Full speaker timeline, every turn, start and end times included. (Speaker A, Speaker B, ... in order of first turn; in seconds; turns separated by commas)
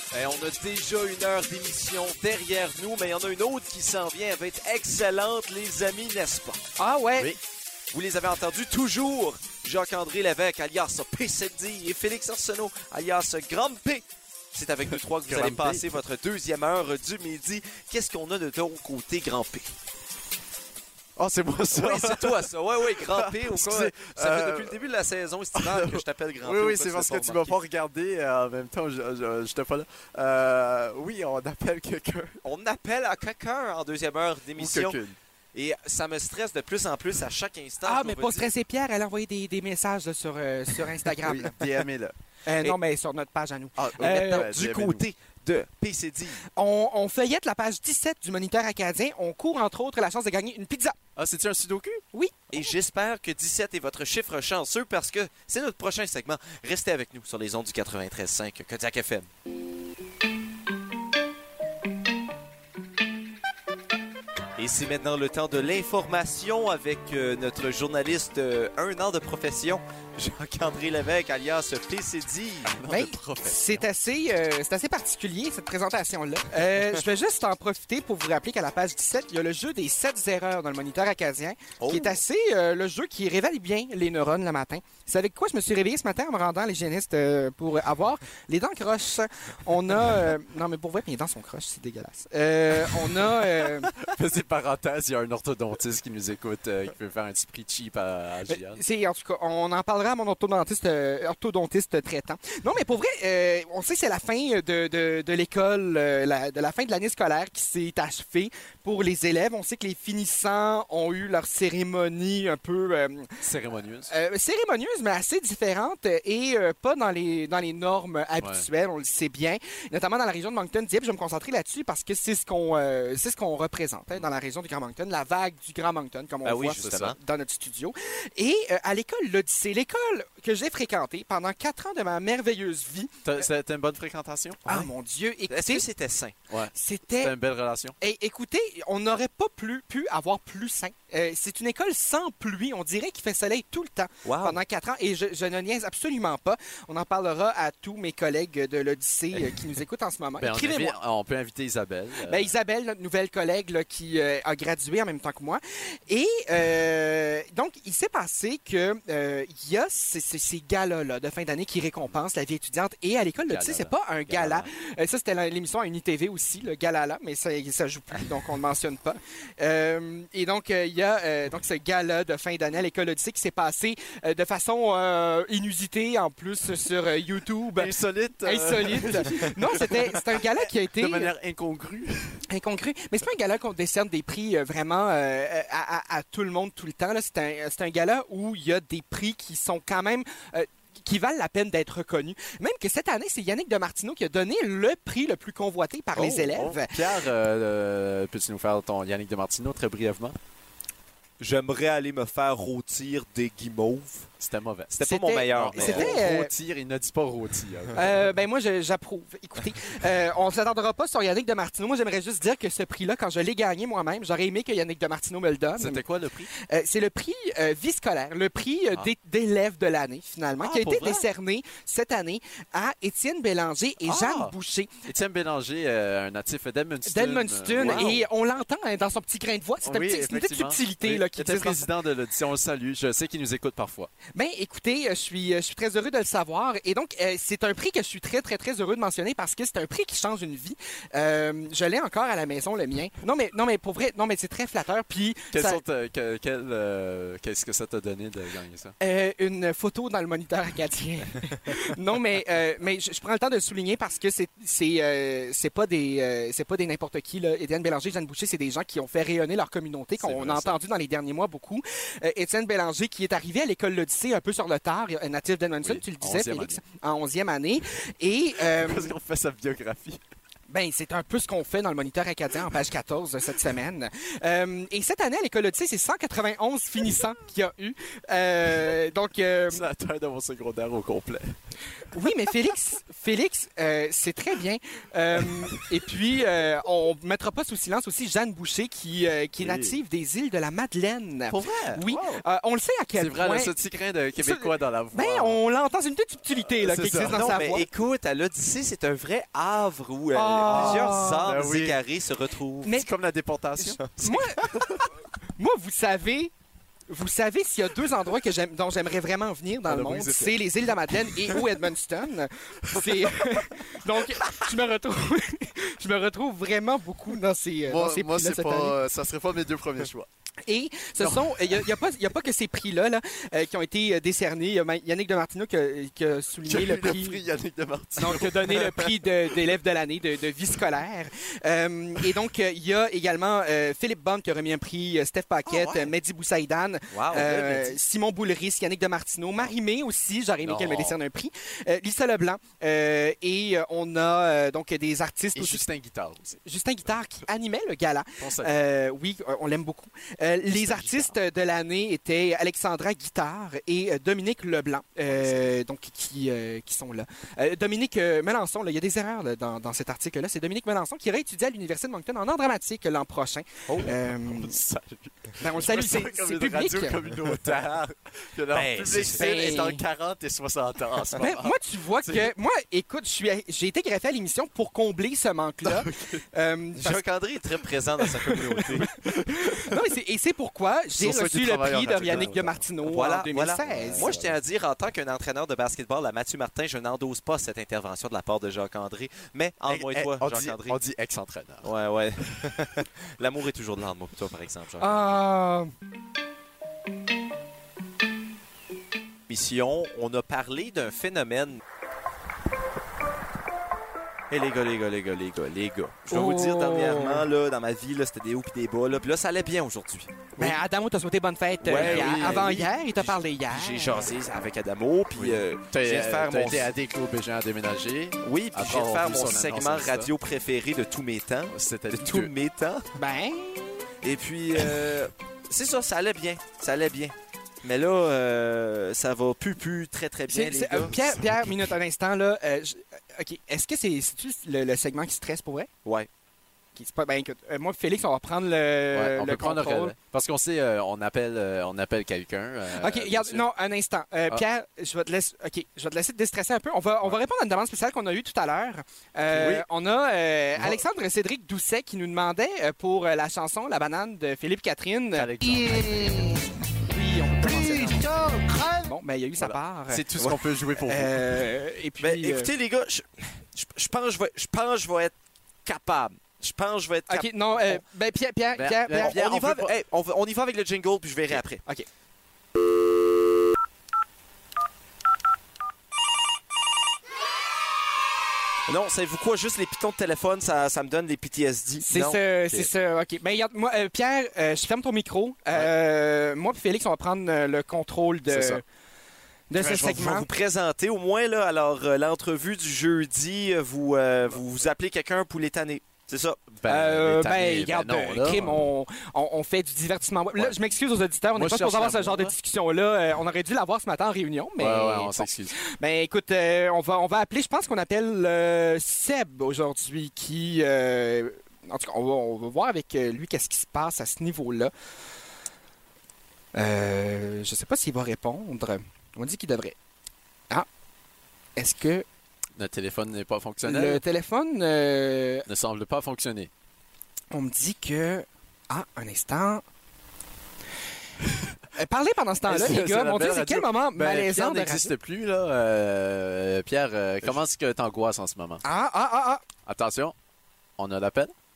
Speaker A: 0.1-6.6, Speaker B: 6.8-7.3, Speaker A: 7.9-19.7, Speaker C: 14.9-16.0, Speaker C: 21.2-24.8, Speaker A: 21.7-27.6, Speaker C: 25.5-32.4, Speaker A: 32.4-35.0, Speaker C: 34.5-35.2, Speaker A: 35.5-38.5, Speaker B: 37.8-41.6, Speaker C: 41.2-42.1, Speaker B: 42.5-44.5, Speaker C: 43.8-45.0, Speaker A: 44.0-46.4, Speaker B: 46.5-51.0, Speaker C: 51.1-52.0, Speaker B: 52.1-52.7, Speaker A: 52.5-59.3, Speaker A: 64.6-72.8, Speaker C: 72.6-73.9, Speaker B: 72.9-93.9, Speaker A: 81.8-82.2, Speaker C: 92.9-98.8, Speaker B: 98.5-113.3, Speaker C: 113.4-114.1, Speaker B: 114.1-133.4, Speaker C: 118.4-118.7, Speaker A: 126.4-127.2, Speaker C: 126.8-127.2, Speaker C: 133.2-134.8, Speaker B: 134.7-135.8, Speaker A: 135.5-136.3, Speaker C: 136.5-137.9, Speaker B: 136.7-137.3, Speaker B: 138.0-150.9, Speaker A: 144.2-144.6, Speaker C: 150.4-152.5, Speaker B: 152.2-181.3, Speaker C: 163.4-164.7, Speaker C: 177.8-182.4, Speaker B: 182.5-197.2, Speaker C: 196.1-200.4, Speaker A: 201.4-204.3, Speaker C: 204.4-204.9, Speaker A: 204.9-206.2, Speaker B: 205.0-206.5, Speaker C: 205.5-208.3, Speaker B: 207.9-224.9, Speaker C: 215.8-216.5, Speaker C: 220.6-221.3, Speaker C: 224.0-224.5, Speaker C: 225.1-228.3, Speaker B: 227.1-231.9, Speaker A: 227.8-228.2, Speaker C: 229.8-234.1, Speaker B: 234.3-245.8, Speaker C: 245.5-248.9, Speaker B: 249.0-269.1, Speaker C: 260.2-260.8, Speaker C: 265.8-266.8, Speaker C: 268.6-270.2, Speaker B: 270.7-279.8, Speaker C: 279.7-281.6, Speaker B: 282.1-293.7, Speaker C: 289.6-290.0, Speaker C: 291.5-292.4, Speaker C: 293.1-295.6, Speaker B: 294.4-297.9, Speaker C: 296.7-297.4, Speaker A: 297.2-302.9, Speaker B: 300.3-301.5, Speaker C: 300.6-302.0, Speaker C: 302.8-305.1, Speaker B: 303.8-304.7, Speaker A: 304.0-304.7, Speaker B: 305.6-306.5, Speaker B: 307.1-319.0, Speaker C: 309.9-311.6, Speaker C: 312.9-313.7, Speaker C: 317.9-320.3, Speaker B: 320.6-327.4, Speaker C: 321.2-321.9, Speaker C: 326.6-329.7, Speaker B: 328.2-345.9, Speaker C: 335.6-336.1, Speaker A: 337.1-337.8, Speaker C: 337.3-337.9, Speaker C: 340.6-341.2, Speaker C: 345.5-346.6, Speaker B: 346.6-364.8, Speaker C: 348.4-348.8, Speaker C: 350.7-351.4, Speaker C: 355.3-355.7, Speaker C: 364.0-372.5, Speaker B: 365.6-367.3, Speaker A: 368.7-369.7, Speaker B: 369.3-370.0, Speaker B: 371.4-377.2, Speaker C: 375.8-376.4, Speaker A: 377.0-379.1, Speaker B: 378.2-378.9, Speaker C: 379.2-379.9, Speaker B: 379.4-384.3, Speaker C: 381.1-382.8, Speaker A: 383.1-391.0, Speaker C: 383.8-384.6, Speaker C: 389.9-391.9, Speaker A: 391.8-395.2, Speaker B: 395.0-395.9, Speaker A: 399.5-401.8, Speaker A: 404.5-410.5, Speaker B: 406.3-407.4, Speaker B: 410.6-414.3, Speaker A: 411.8-416.9, Speaker C: 411.9-412.8, Speaker C: 415.3-420.3, Speaker A: 418.4-423.1, Speaker C: 421.7-422.5, Speaker B: 423.1-424.0, Speaker A: 424.2-431.1, Speaker B: 430.5-435.9, Speaker C: 431.1-431.9, Speaker B: 436.9-440.1, Speaker C: 439.1-443.6, Speaker B: 442.9-460.3, Speaker C: 449.5-449.9, Speaker C: 450.8-451.0, Speaker C: 455.3-456.7, Speaker C: 457.8-458.5, Speaker C: 459.6-461.4, Speaker B: 461.0-462.7, Speaker A: 462.2-465.3, Speaker A: 465.9-468.0, Speaker B: 467.3-469.7, Speaker C: 468.7-469.9, Speaker A: 469.2-471.8, Speaker A: 478.9-482.4, Speaker B: 482.0-488.8, Speaker C: 488.5-488.8, Speaker B: 489.7-490.5, Speaker A: 489.8-496.6, Speaker C: 496.7-498.9, Speaker B: 496.9-514.9, Speaker C: 501.5-502.5, Speaker C: 504.8-505.8, Speaker B: 516.7-519.9, Speaker B: 521.8-522.2, Speaker C: 522.8-524.2, Speaker B: 523.8-525.6, Speaker C: 525.7-526.7, Speaker B: 527.5-529.8, Speaker C: 531.5-531.7, Speaker B: 531.9-535.1, Speaker C: 532.7-538.8, Speaker B: 538.8-539.6, Speaker C: 539.9-540.3, Speaker C: 541.0-541.5